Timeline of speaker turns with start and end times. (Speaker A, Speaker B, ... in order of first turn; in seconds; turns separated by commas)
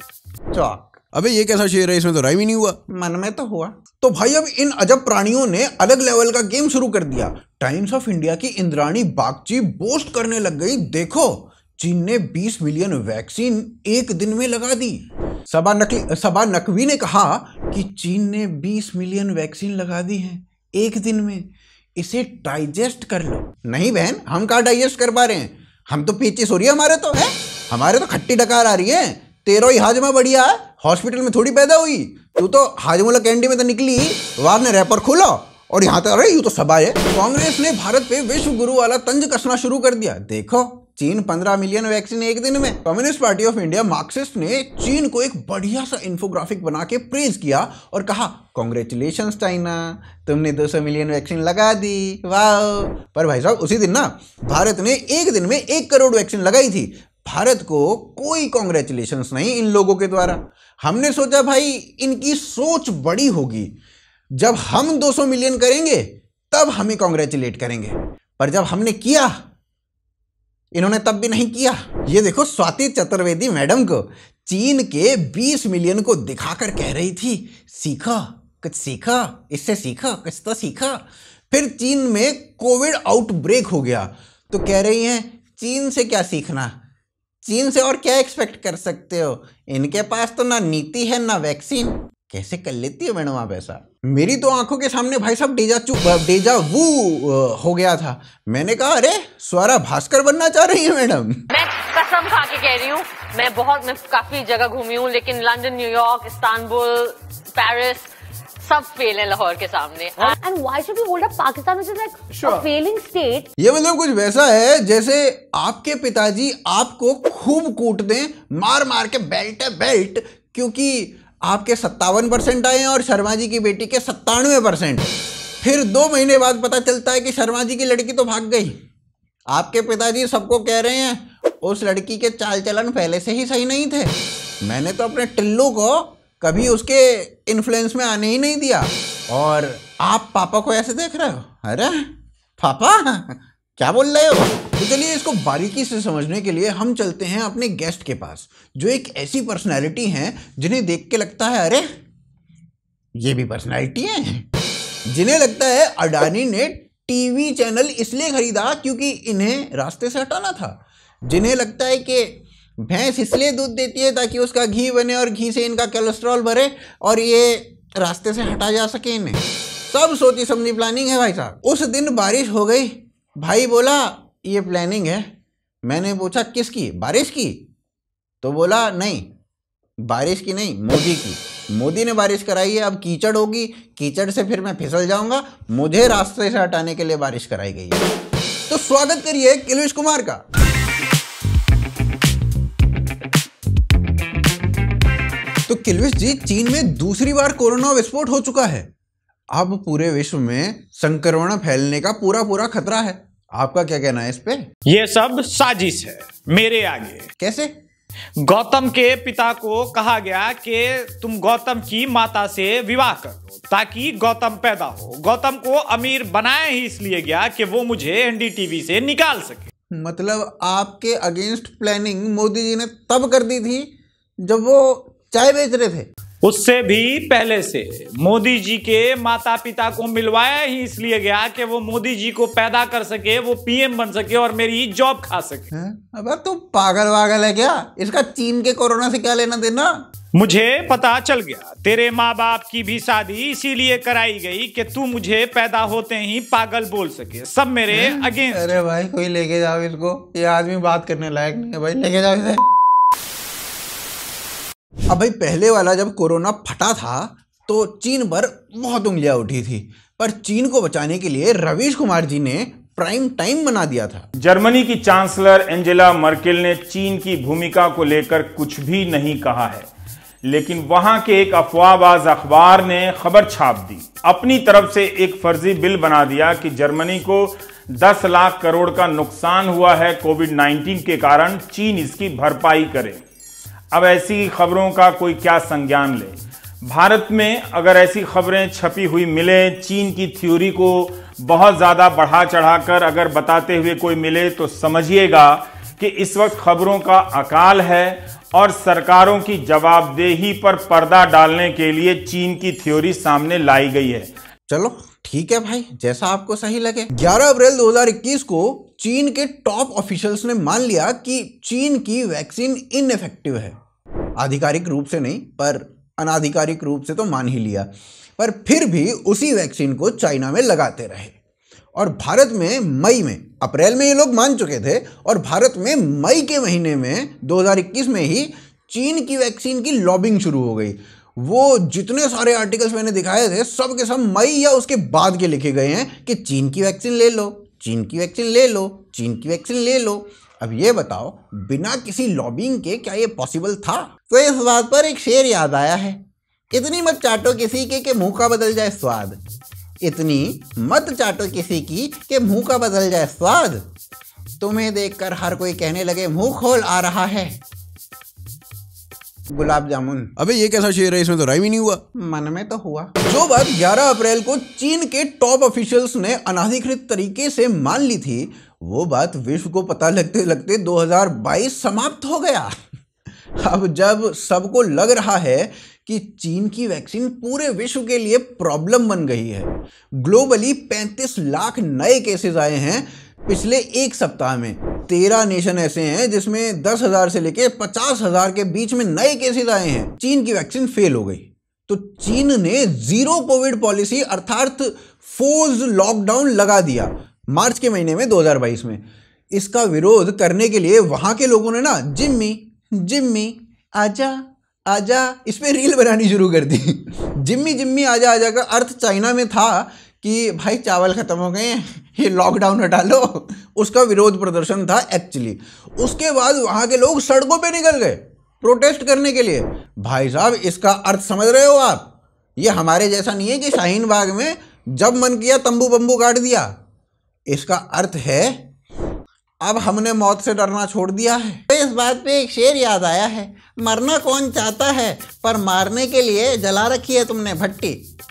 Speaker A: 0.5-1.0, Speaker B: 1.1-2.8, Speaker A: 3.0-15.0, Speaker A: 15.5-21.4, Speaker A: 22.0-63.7, Speaker A: 64.4-69.3, Speaker A: 70.7-86.8, Speaker A: 87.5-101.4, Speaker C: 101.5-108.1, Speaker C: 108.6-113.5, Speaker A: 113.6-125.1, Speaker A: 125.6-128.8, Speaker A: 129.5-151.8, Speaker A: 153.2-154.5, Speaker A: 155.1-162.3, Speaker A: 162.9-175.3, Speaker A: 175.9-177.6, Speaker A: 178.4-179.3, Speaker A: 180.1-188.1, Speaker A: 188.7-190.4, Speaker A: 195.7-198.9, Speaker A: 199.5-204.6, Speaker D: 204.9-207.2, Speaker A: 207.4-207.7, Speaker D: 208.5-219.6, Speaker A: 220.0-223.9, Speaker A: 224.4-226.1, Speaker D: 226.4-235.6, Speaker A: 235.7-240.1, Speaker D: 240.4-248.6, Speaker A: 247.9-252.5, Speaker A: 255.1-264.3, Speaker E: 264.4-269.9, Speaker E: 270.5-283.2, Speaker E: 283.9-304.3, Speaker A: 304.7-313.8, Speaker A: 314.4-321.4, Speaker A: 322.0-346.2, Speaker A: 346.7-349.4, Speaker A: 350.0-353.8, Speaker A: 354.6-357.6, Speaker A: 359.6-360.3, Speaker B: 360.4-362.0, Speaker A: 362.2-372.7, Speaker A: 373.6-399.0, Speaker A: 399.5-422.1, Speaker A: 422.6-426.7, Speaker A: 427.5-428.6, Speaker A: 429.6-438.0